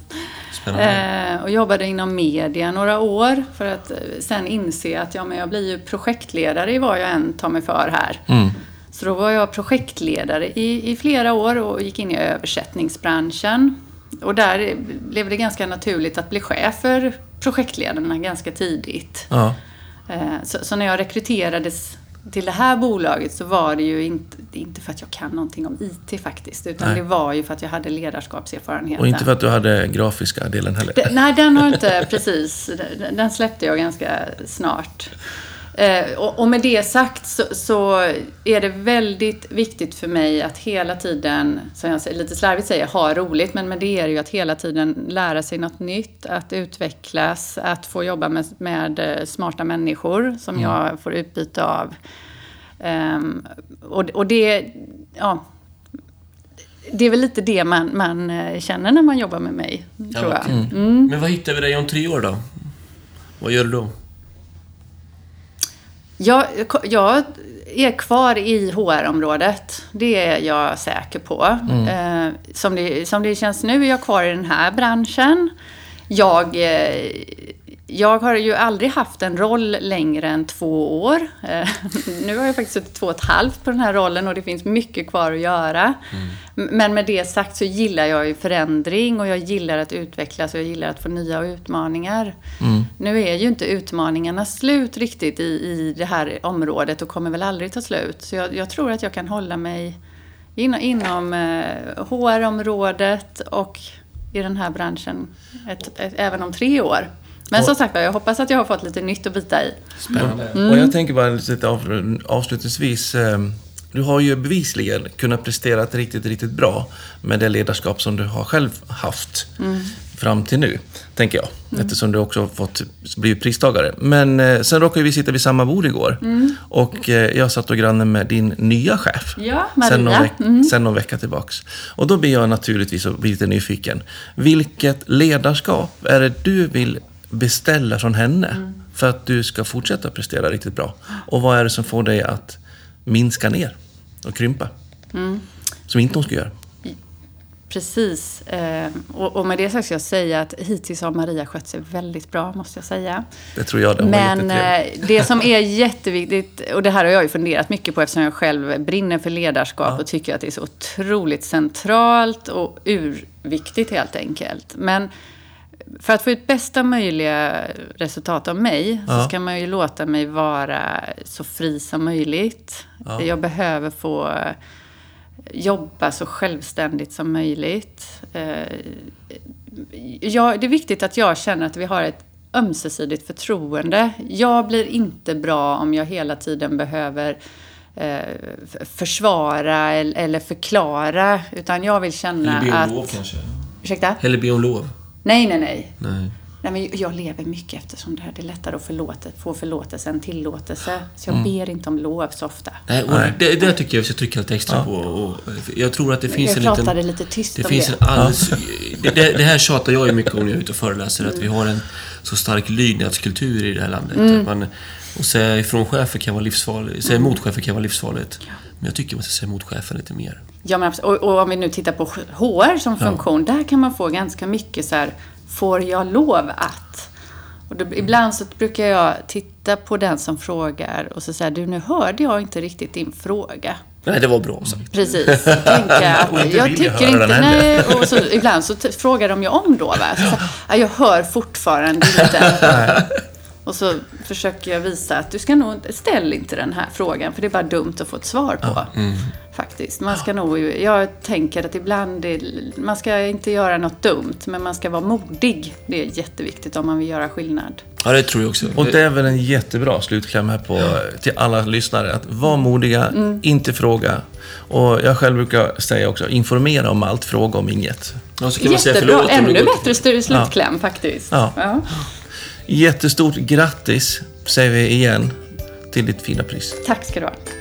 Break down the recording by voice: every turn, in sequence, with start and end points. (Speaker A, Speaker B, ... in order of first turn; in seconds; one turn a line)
Speaker A: 0.5-1.0
Speaker B: 0.7-8.2
Speaker C: 8.3-8.6
Speaker B: 8.9-19.3
Speaker C: 19.3-19.6
Speaker B: 20.1-29.3
Speaker C: 29.0-31.1
Speaker B: 30.9-35.1
Speaker B: 35.7-52.0
Speaker B: 52.8-55.4
Speaker B: 56.9-61.1
Speaker A: 60.1-62.7
Speaker A: 63.4-63.9
Speaker B: 66.2-75.5
Speaker C: 71.7-71.9
Speaker B: 76.1-92.4
Speaker C: 92.6-92.9
Speaker B: 93.0-100.0
Speaker B: 100.6-111.0
Speaker A: 110.0-110.6
Speaker C: 110.1-119.5
Speaker B: 119.6-119.9
Speaker C: 120.1-144.7
Speaker B: 126.2-126.6
Speaker B: 129.4-130.7
Speaker B: 145.1-145.4
Speaker C: 145.9-146.5
Speaker B: 147.7-153.2
Speaker C: 153.6-154.8
Speaker B: 154.0-165.1
Speaker B: 166.0-174.6
Speaker B: 175.5-179.2
Speaker B: 179.7-187.4
Speaker B: 187.9-193.2
Speaker A: 192.4-193.6
Speaker B: 193.8-194.2
Speaker A: 194.2-194.9
Speaker B: 195.2-195.9
Speaker A: 196.0-196.3
Speaker B: 196.6-202.8
Speaker A: 202.9-206.9
Speaker C: 203.1-203.4
Speaker B: 206.3-208.0
Speaker A: 207.6-220.4
Speaker C: 208.2-208.4
Speaker B: 214.2-214.5
Speaker B: 217.1-217.3
Speaker B: 220.6-227.1
Speaker B: 227.7-233.8
Speaker A: 234.1-235.9
Speaker B: 234.9-242.9
Speaker C: 235.9-238.3
Speaker C: 242.6-243.1
Speaker B: 243.7-248.9
Speaker A: 248.9-249.3
Speaker B: 249.5-257.8
Speaker A: 258.0-259.0
Speaker C: 258.8-268.2
Speaker B: 263.1-263.4
Speaker A: 268.4-270.0
Speaker B: 268.6-271.9
Speaker C: 271.3-271.6
Speaker C: 272.7-275.4
Speaker C: 275.9-276.8
Speaker B: 276.8-277.4